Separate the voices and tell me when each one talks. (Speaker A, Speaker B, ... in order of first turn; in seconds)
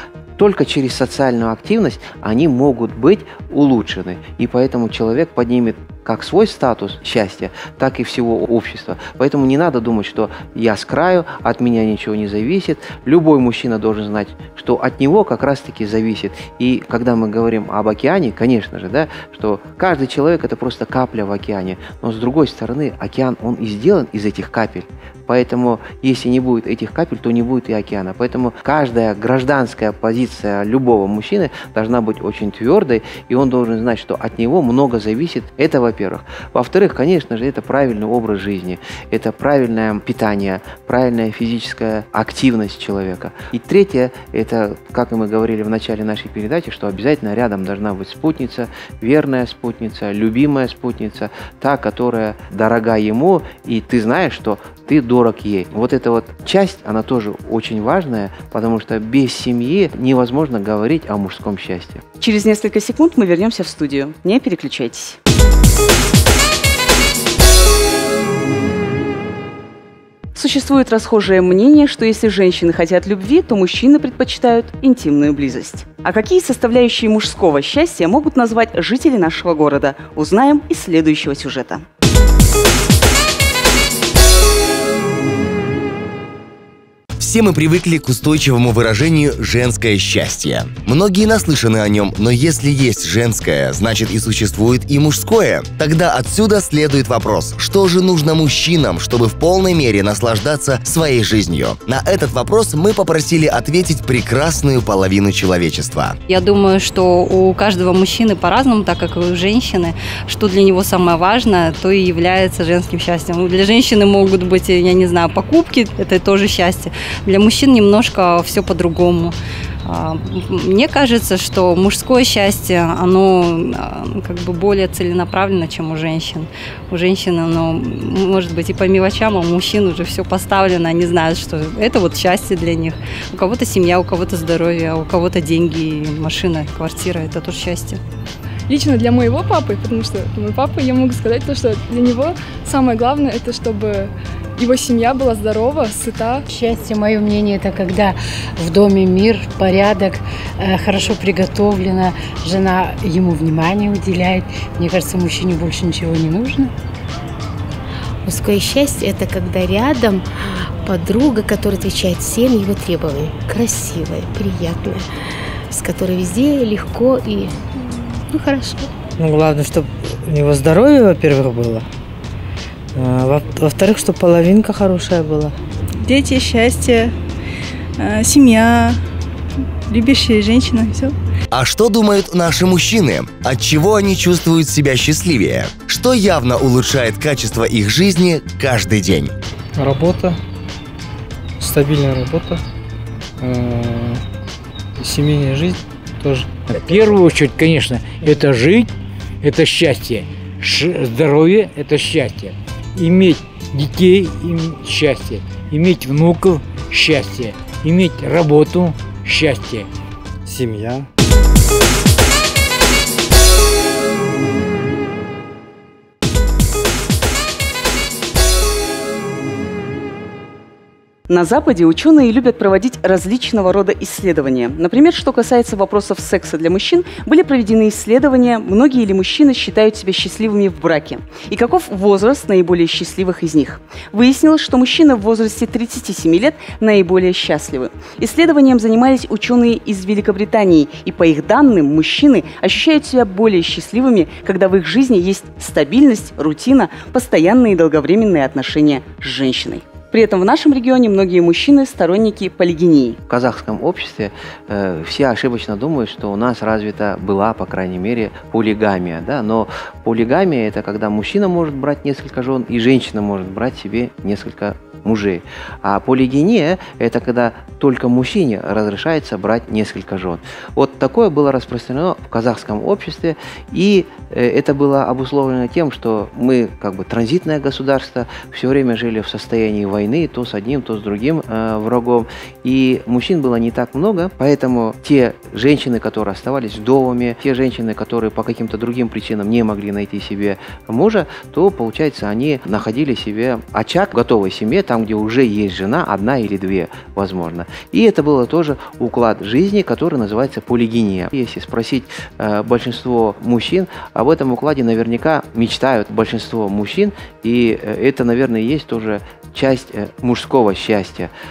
Speaker A: 0.4-62.0, 253.3-311.3
Speaker B: 62.2-65.2, 70.3-81.8, 221.3-253.2
Speaker C: 87.2-106.2, 181.5-189.3
Speaker D: 106.3-138.0
Speaker E: 138.7-146.4
Speaker F: 146.5-156.7
Speaker G: 158.2-160.2, 160.8-165.1, 165.7-167.6, 168.2-168.9
Speaker H: 169.2-171.9, 172.9-175.5
Speaker I: 176.0-177.1, 178.0-179.0, 179.9-181.2
Speaker J: 189.8-190.4, 191.6-192.6, 193.4-194.2, 195.0-196.7, 210.5-211.1
Speaker K: 196.7-209.9